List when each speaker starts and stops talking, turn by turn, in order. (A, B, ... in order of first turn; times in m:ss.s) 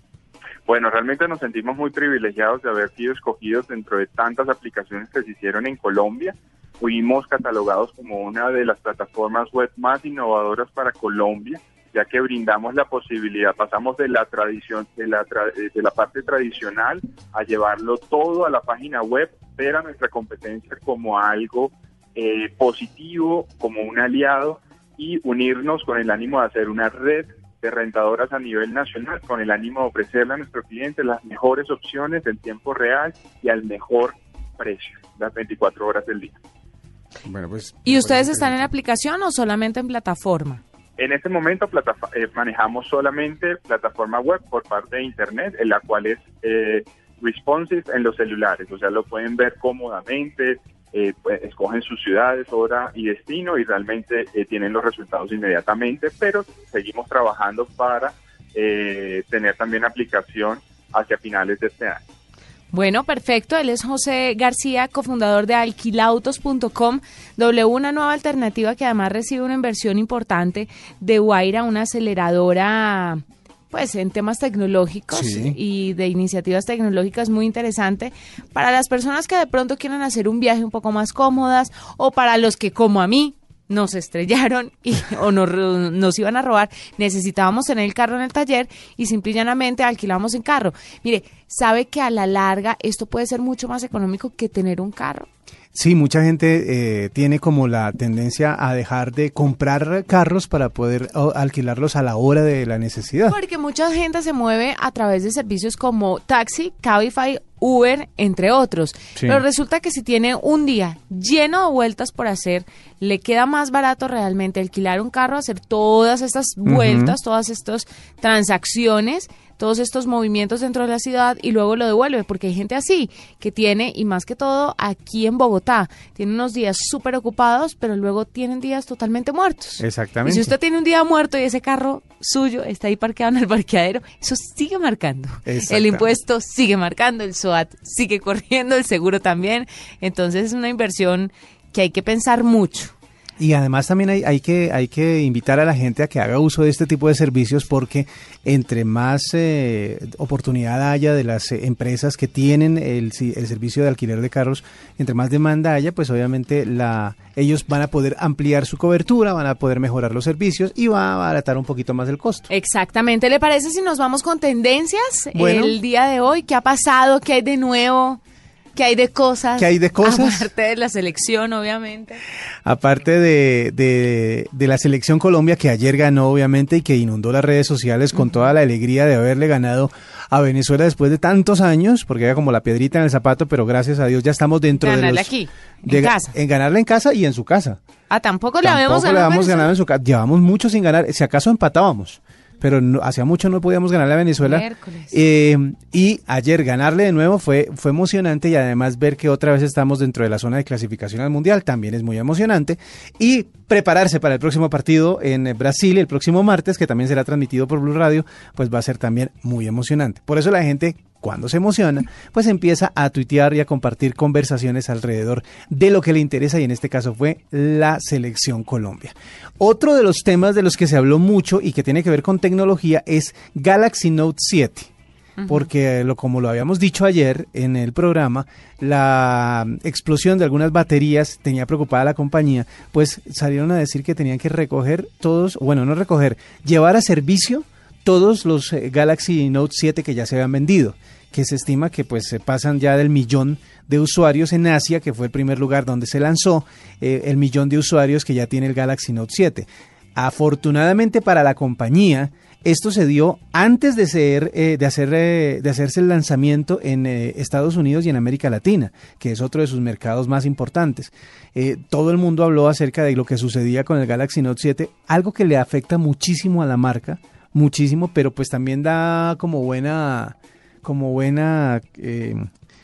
0:00.7-0:36.4 A
0:37.2-0:38.7 B
0:37.8-0:40.6 C
0:41.0-1:02.0 A
1:02.7-1:35.3 C
1:15.1-1:15.6 B
1:35.7-1:43.4 B
1:43.3-2:22.9 C
1:49.2-1:49.4 B
1:56.6-1:57.2 B
2:09.8-2:10.5 B
2:15.5-2:16.1 B
2:23.4-2:42.5 B
2:42.5-2:48.2 C
2:45.3-2:45.8 B
2:48.8-2:52.2 C
2:49.6-2:50.5 B
2:52.6-3:05.3 B
3:04.8-3:06.3 C
3:05.8-3:07.8 B
3:08.1-3:09.7 C
3:08.6-3:44.9 B
3:14.4-3:15.2 C
3:45.4-3:45.7 C
3:45.5-4:32.5 B